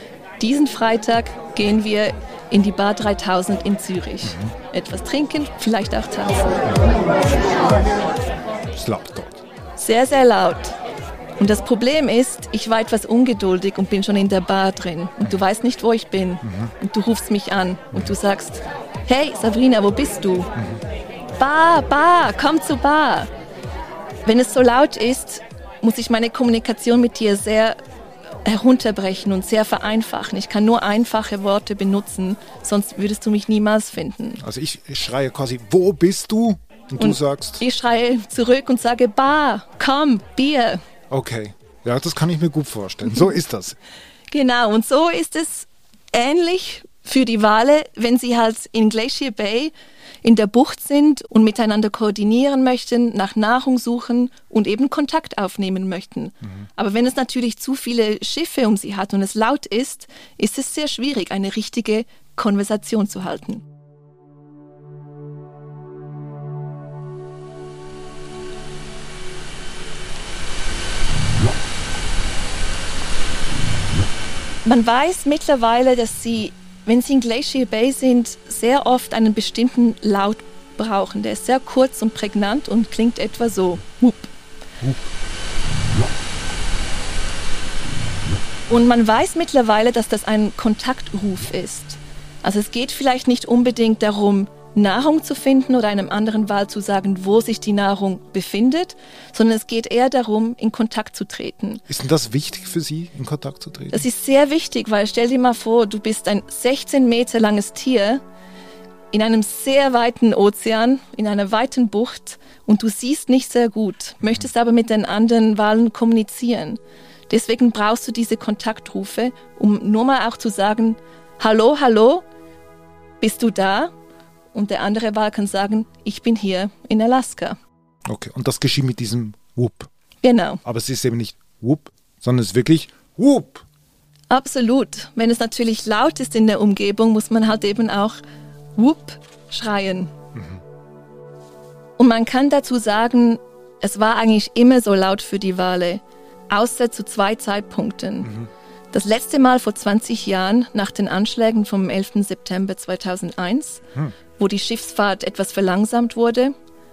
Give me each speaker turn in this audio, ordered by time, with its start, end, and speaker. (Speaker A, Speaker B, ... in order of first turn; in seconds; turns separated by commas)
Speaker A: 0.4-6.6, Speaker B: 4.2-4.5, Speaker B: 6.6-7.0, Speaker B: 8.7-9.4, Speaker A: 9.8-10.8, Speaker A: 11.4-20.5, Speaker B: 16.4-16.7, Speaker B: 20.5-20.8, Speaker A: 21.4-23.3, Speaker A: 24.2-27.8, Speaker A: 28.4-34.4, Speaker B: 34.4-37.6, Speaker A: 37.0-40.8, Speaker B: 41.1-43.8, Speaker A: 44.3-63.6, Speaker A: 74.6-84.3, Speaker A: 88.7-101.8, Speaker B: 101.9-104.0, Speaker A: 103.9-108.2, Speaker A: 109.1-122.2, Speaker A: 123.2-123.9, Speaker A: 124.5-127.6, Speaker B: 128.1-129.9, Speaker A: 130.2-130.6, Speaker B: 130.6-133.6, Speaker A: 134.3-138.2, Speaker A: 138.8-140.1, Speaker B: 140.3-140.6, Speaker A: 142.0-148.3, Speaker B: 148.2-148.5, Speaker A: 148.9-153.8, Speaker A: 154.4-156.5